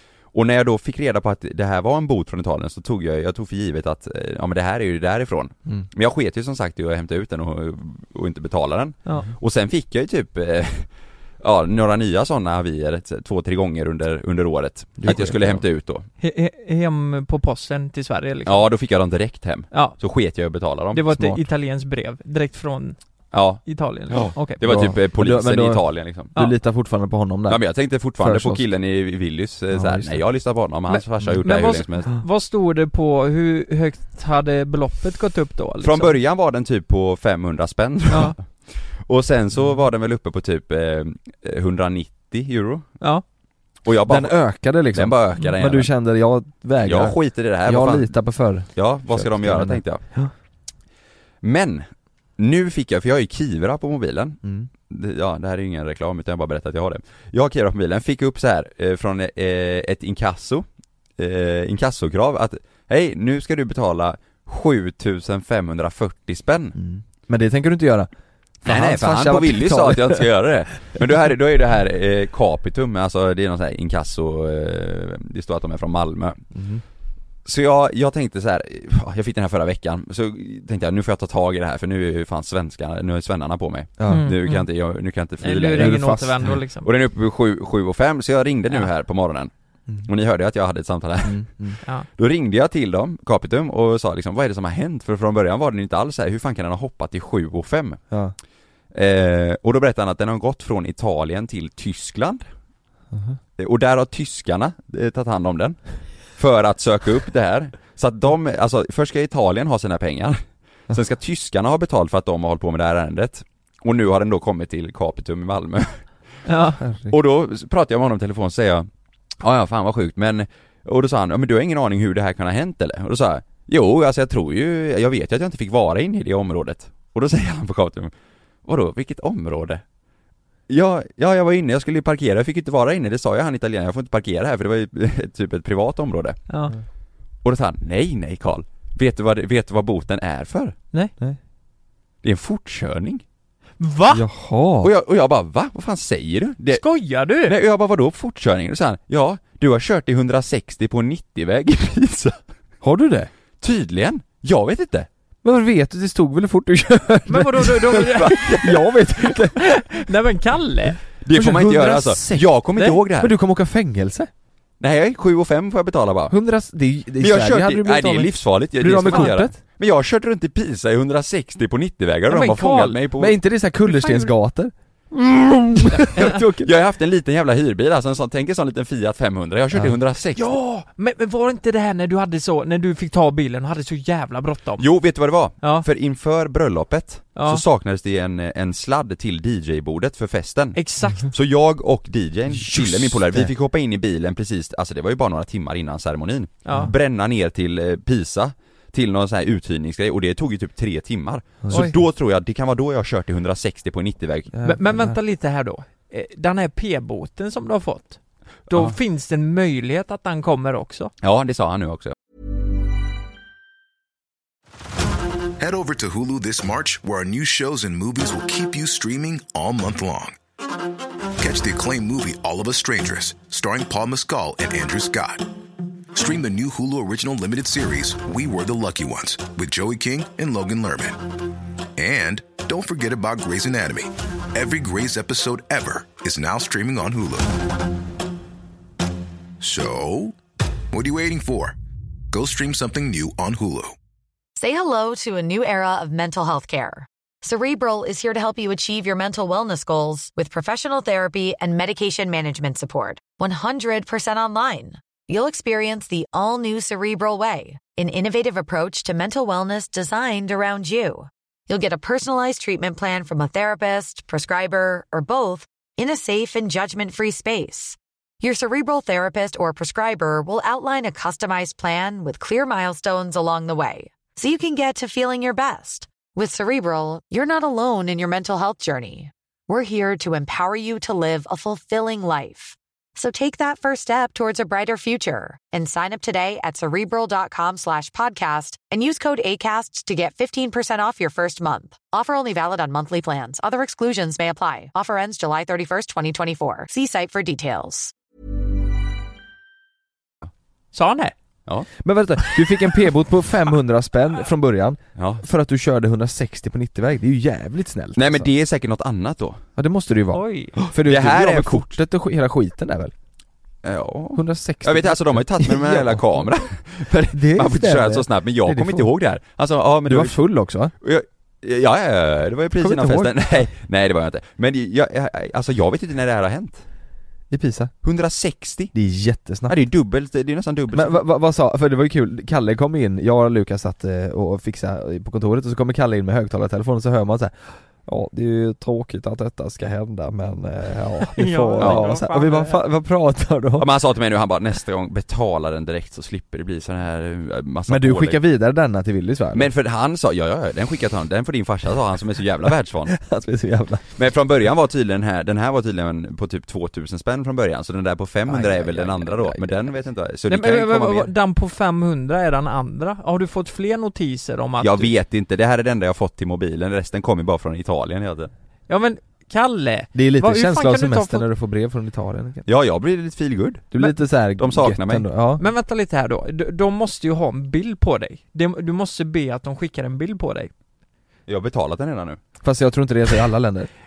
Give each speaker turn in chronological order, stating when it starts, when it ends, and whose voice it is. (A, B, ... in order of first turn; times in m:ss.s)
0:00.3-0:16.1 A
0:15.0-0:15.6 B
0:16.2-0:18.7 C
0:18.5-0:21.4 A
0:19.7-0:20.0 C
0:20.9-0:24.6 C
0:23.3-0:26.3 A
0:24.4-0:28.6 B
0:27.5-0:32.1 A
0:29.7-0:30.2 B
0:30.9-0:36.2 C
0:35.8-0:42.9 A
0:38.1-0:38.4 C
0:43.8-0:45.9 A
0:44.1-0:50.3 B
0:46.8-0:50.1 A
0:51.4-1:00.7 A
0:54.4-0:54.7 B
1:01.2-1:06.8 A
1:06.8-1:08.1 B
1:08.6-1:10.3 B
1:08.7-1:16.4 A
1:16.5-1:16.8 B
1:17.4-1:29.5 A
1:24.0-1:24.3 B
1:24.1-1:24.7 C
1:25.4-1:26.9 C
1:25.7-1:26.6 B
1:30.0-1:38.0 A
1:31.2-1:31.8 B
1:38.1-1:38.4 B
1:38.9-1:42.5 A
1:43.1-1:43.4 B
1:43.6-1:56.1 A
1:56.5-1:56.8 C
1:56.8-1:57.2 B
1:57.1-1:58.9 A
1:59.4-2:08.1 A
2:08.6-2:09.8 A
2:10.7-2:16.4 A
2:17.4-2:20.8 A
2:22.2-2:23.2 A
2:23.8-2:24.2 C
2:24.1-2:24.9 B
2:24.8-2:26.8 A
2:26.7-2:27.6 C
2:27.4-2:32.4 A
2:32.8-2:33.3 B
2:33.6-2:35.1 A
2:35.4-2:39.9 B
2:37.3-2:38.6 C
2:39.6-2:41.0 C
2:41.2-2:43.3 A
2:41.3-2:42.5 B
2:43.1-2:44.3 B
2:44.8-2:46.4 A
2:46.3-2:49.6 B
2:47.2-2:53.4 A
2:49.1-2:49.3 C
2:52.3-2:53.0 C
2:53.1-2:56.7 B
2:53.9-2:54.3 C
2:56.0-2:56.4 C
2:56.2-3:00.4 A
3:00.4-3:04.9 C
3:04.8-3:24.5 A
3:05.6-3:05.9 C
3:07.4-3:07.6 C
3:10.8-3:11.3 C
3:12.5-3:13.5 B
3:16.6-3:16.9 C
3:21.6-3:21.9 B
3:21.7-3:22.0 C
3:24.5-3:25.2 B
3:24.6-3:31.1 C
3:28.7-3:29.0 A
3:31.2-3:32.1 A
3:35.6-3:40.4 D
3:41.4-3:45.5 D
3:46.1-3:51.2 D
3:52.0-3:57.6 D
3:59.6-4:00.4 D
4:00.9-4:01.8 D
4:02.3-4:04.0 D
4:04.6-4:58.1 E
5:00.9-5:01.3 C
5:02.0-5:08.5 B
5:05.2-5:05.4 A
5:08.2-5:09.6 A
5:09.8-5:13.1 B
5:10.3-5:10.8 C
5:10.8-5:11.9 A
5:13.8-5:20.4 A
5:14.3-5:16.5 B
5:17.1-5:19.1 B
5:20.1-5:20.9 B
5:21.0-5:26.8 A
5:22.8-5:23.6 B
5:27.5-5:27.9 B
5:28.0-5:28.9 A
5:28.9-5:29.8 B
5:29.7-5:31.2 A
5:30.9-5:43.9 B
5:41.2-5:42.8 C
5:41.8-5:42.1 A
5:43.8-5:48.4 A
5:47.9-5:49.7 B
5:49.5-5:53.2 A
5:53.1-5:54.0 B
5:54.2-6:01.3 A
5:58.5-5:59.9 B
6:00.5-6:05.1 C
6:04.8-6:08.5 A
6:08.9-6:11.5 C
6:10.1-6:12.6 B
6:12.7-6:15.3 A
6:13.9-6:15.6 B
6:15.6-6:20.7 C
6:21.5-6:22.4 A
6:22.6-6:23.9 B